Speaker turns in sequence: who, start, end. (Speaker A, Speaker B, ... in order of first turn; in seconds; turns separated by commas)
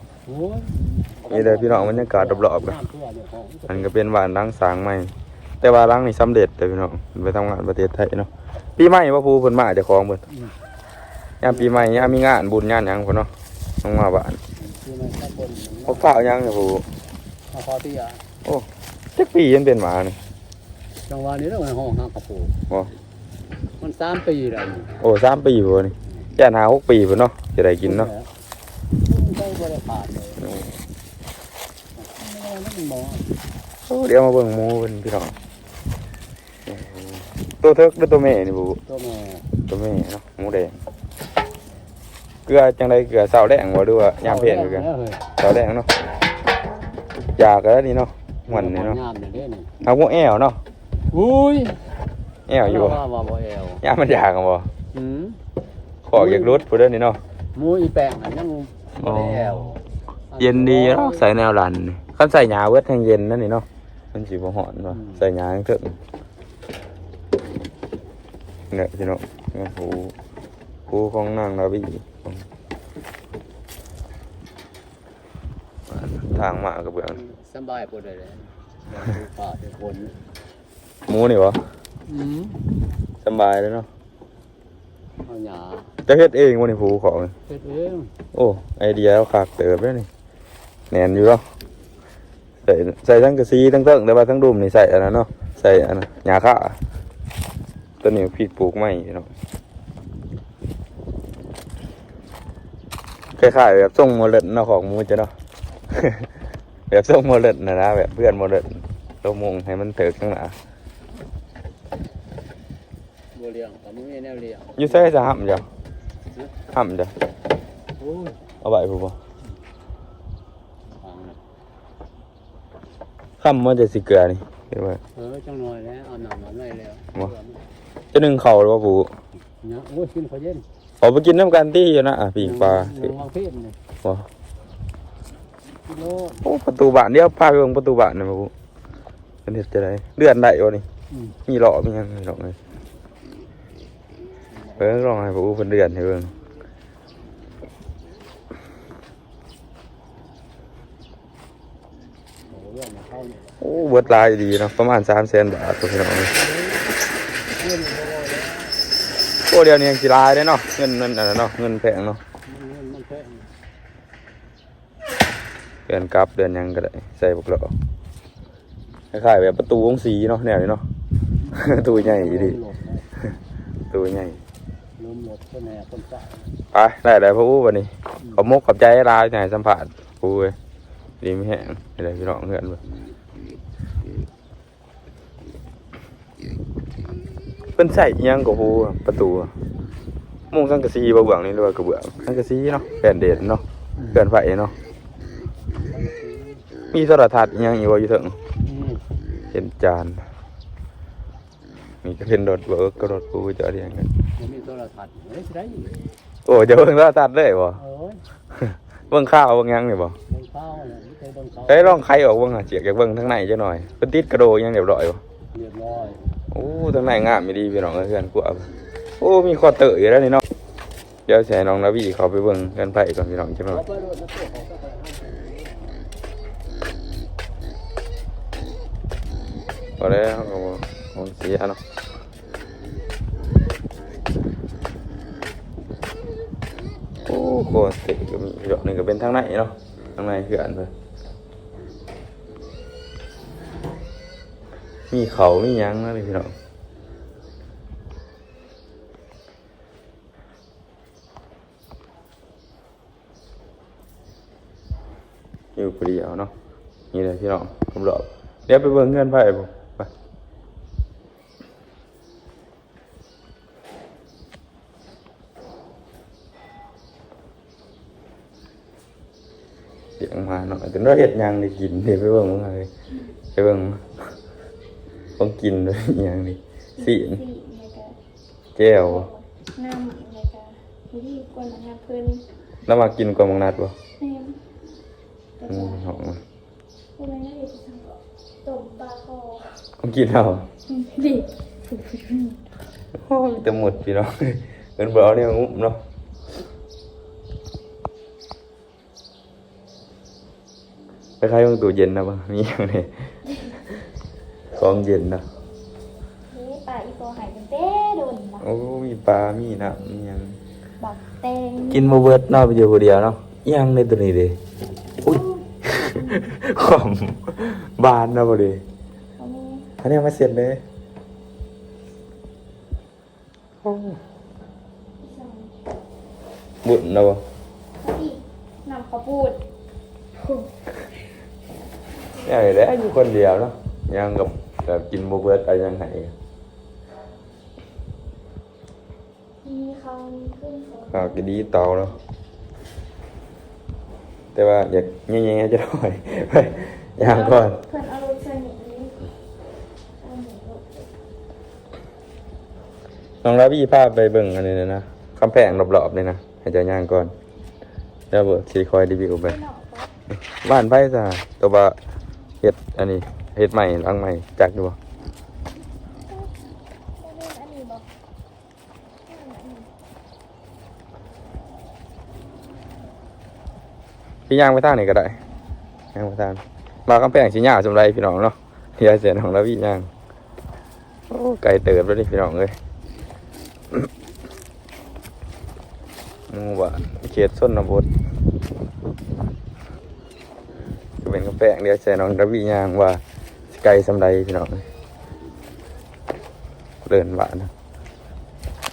Speaker A: 0.2-3.9, Speaker B: 1.3-2.8, Speaker B: 3.7-10.2, Speaker A: 10.3-10.5, Speaker B: 11.4-13.3, Speaker A: 11.4-12.2, Speaker B: 13.8-14.4, Speaker A: 14.6-16.3, Speaker B: 15.9-16.9, Speaker A: 17.5-18.2, Speaker B: 18.4-20.2, Speaker A: 21.1-22.5, Speaker A: 23.8-24.9, Speaker B: 25.0-28.1, Speaker A: 27.8-28.3, Speaker A: 29.0-30.5, Speaker B: 30.4-30.7, Speaker A: 31.9-33.3, Speaker B: 33.9-35.4, Speaker B: 36.7-38.8, Speaker A: 38.9-39.5, Speaker B: 39.6-40.8, Speaker B: 42.5-44.9, Speaker A: 44.2-45.3, Speaker B: 45.4-45.9, Speaker B: 47.4-49.0, Speaker A: 48.5-49.7, Speaker B: 49.8-50.6, Speaker A: 51.1-51.8, Speaker B: 52.5-53.0, Speaker A: 52.6-53.8, Speaker B: 53.8-54.7, Speaker A: 54.9-55.4, Speaker B: 56.0-57.2, Speaker A: 56.1-56.6, Speaker A: 57.5-61.3, Speaker B: 59.0-59.7, Speaker B: 60.4-66.0, Speaker A: 64.9-65.2, Speaker B: 68.7-70.1, Speaker B: 70.9-72.4, Speaker B: 75.9-77.2, Speaker A: 77.1-80.2, Speaker B: 81.1-81.6, Speaker A: 82.0-82.6, Speaker B: 83.2-83.9, Speaker A: 85.2-85.9, Speaker B: 86.0-87.3, Speaker A: 87.5-88.1, Speaker B: 88.3-90.1, Speaker B: 90.9-91.4, Speaker B: 92.6-96.8, Speaker B: 98.0-99.3, Speaker B: 103.3-105.3, Speaker B: 105.9-106.3, Speaker B: 106.9-110.5, Speaker A: 113.3-115.1, Speaker B: 114.8-115.7, Speaker B: 116.7-117.1, Speaker A: 118.0-118.4, Speaker B: 118.6-119.2, Speaker A: 120.9-121.4, Speaker B: 123.4-125.0, Speaker A: 125.1-127.7, Speaker B: 128.1-129.1, Speaker A: 129.6-130.6, Speaker B: 131.0-133.1, Speaker A: 132.4-133.8, Speaker A: 135.8-136.5, Speaker B: 136.4-138.5, Speaker B: 139.4-140.8, Speaker A: 141.1-141.3, Speaker B: 141.5-142.6, Speaker A: 144.5-145.0, Speaker B: 144.8-146.3, Speaker A: 152.4-154.2, Speaker B: 153.6-156.3, Speaker A: 156.3-156.9, Speaker A: 157.5-158.8, Speaker B: 159.4-162.2, Speaker A: 162.4-163.5, Speaker B: 165.9-167.7, Speaker B: 169.1-170.8, Speaker A: 171.4-173.1, Speaker B: 171.5-172.6, Speaker B: 173.9-174.4, Speaker A: 175.0-176.5, Speaker B: 176.7-180.6, Speaker B: 181.2-182.8, Speaker B: 187.8-189.5, Speaker B: 190.5-194.7, Speaker A: 195.8-196.6, Speaker B: 196.9-198.4, Speaker A: 198.6-199.0, Speaker B: 199.5-200.2, Speaker B: 202.0-204.1, Speaker A: 204.3-205.9, Speaker B: 206.4-207.8, Speaker A: 207.7-208.2, Speaker B: 208.6-210.2, Speaker A: 210.3-212.1, Speaker B: 211.7-215.2, Speaker A: 215.5-216.3, Speaker B: 216.5-220.4, Speaker B: 221.3-223.8, Speaker A: 223.7-226.1, Speaker B: 230.0-231.8, Speaker B: 237.2-240.9, Speaker B: 245.1-246.5, Speaker B: 255.8-256.5, Speaker B: 257.1-260.1, Speaker B: 270.2-272.9, Speaker B: 273.5-274.3, Speaker B: 275.4-277.4, Speaker C: 277.0-278.2, Speaker B: 278.8-279.3, Speaker C: 279.0-282.4, Speaker B: 282.9-283.9, Speaker C: 284.2-284.6, Speaker C: 285.6-286.2, Speaker B: 285.6-286.4, Speaker C: 287.2-289.8, Speaker B: 290.0-290.7, Speaker C: 290.9-292.6, Speaker B: 293.2-296.0, Speaker B: 301.4-303.3, Speaker B: 304.7-305.4, Speaker C: 306.5-308.6, Speaker B: 308.6-310.6, Speaker C: 311.0-312.1, Speaker B: 311.9-314.6, Speaker B: 315.2-318.8, Speaker C: 315.2-315.6, Speaker C: 319.4-319.9, Speaker B: 320.0-320.8, Speaker B: 323.8-324.2, Speaker C: 325.2-325.7, Speaker B: 326.8-327.4, Speaker C: 328.0-329.6, Speaker C: 330.4-330.7, Speaker B: 332.4-336.3, Speaker C: 339.6-341.4, Speaker B: 341.1-342.2, Speaker B: 344.5-347.8, Speaker C: 347.2-349.3, Speaker C: 350.2-351.1, Speaker B: 353.4-357.3, Speaker B: 358.3-359.6, Speaker C: 359.4-360.1, Speaker B: 360.5-361.9, Speaker B: 362.6-365.0, Speaker C: 367.2-368.1, Speaker C: 369.3-369.9, Speaker B: 374.5-375.4, Speaker B: 376.1-380.1, Speaker B: 381.3-382.8, Speaker B: 386.5-388.1, Speaker B: 391.2-394.8, Speaker B: 397.1-397.7